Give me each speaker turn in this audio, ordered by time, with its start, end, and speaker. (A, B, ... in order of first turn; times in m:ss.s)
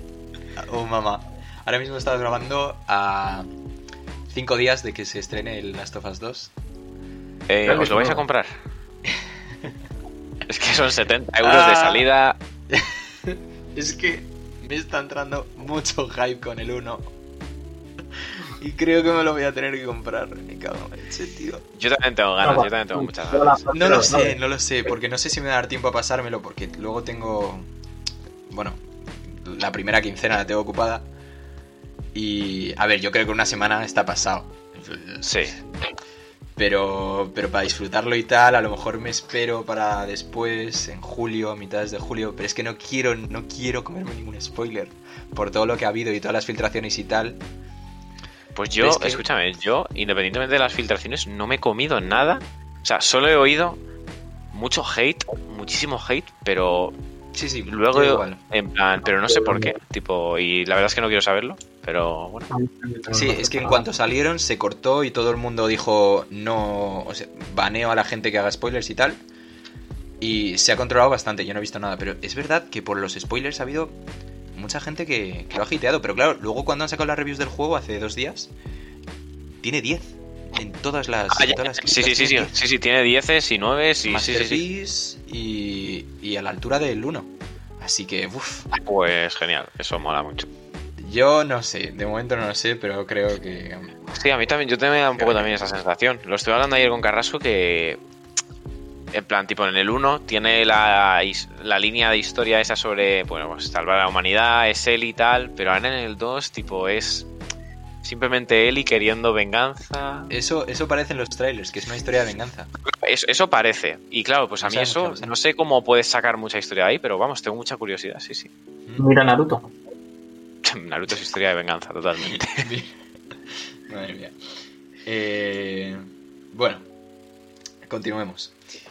0:00.6-0:03.5 A
0:04.3-0:06.5 A
0:07.5-0:08.5 B
0:07.7-0:08.2 C
0:10.5-0:12.4 B
0:11.4-0:12.0 A
0:12.7-0:17.1 A
0:18.6-0:21.6 A
0:21.8-0:23.6 B
0:22.4-0:24.4 C
0:23.7-0:27.7 A
0:28.5-0:31.0 A
0:32.1-0:35.5 A
0:35.2-0:35.5 B
0:36.6-0:47.4 A
0:48.6-0:53.8 B
0:48.8-0:49.2 A
0:54.5-0:56.9 B
0:57.3-0:58.4 A
0:57.7-1:02.5 B
0:59.3-0:59.7 C
1:02.5-1:03.8 C
1:03.1-1:09.2 A
1:10.2-1:14.0 A
1:14.5-1:18.5 A
1:19.6-1:22.5 A
1:21.3-1:24.6 B
1:24.0-1:28.7 A
1:28.7-1:30.5 B
1:31.0-1:34.0 A
1:34.1-1:38.0 B
1:35.2-1:35.5 A
1:39.1-1:47.3 B
1:48.0-1:50.3 B
1:50.3-1:52.7 A
1:52.9-1:58.5 B
1:54.6-1:55.3 A
1:59.0-1:59.7 C
2:00.6-2:02.6 B
2:02.3-2:02.9 A
2:03.9-2:04.3 A
2:05.0-2:06.8 A
2:07.8-2:08.5 A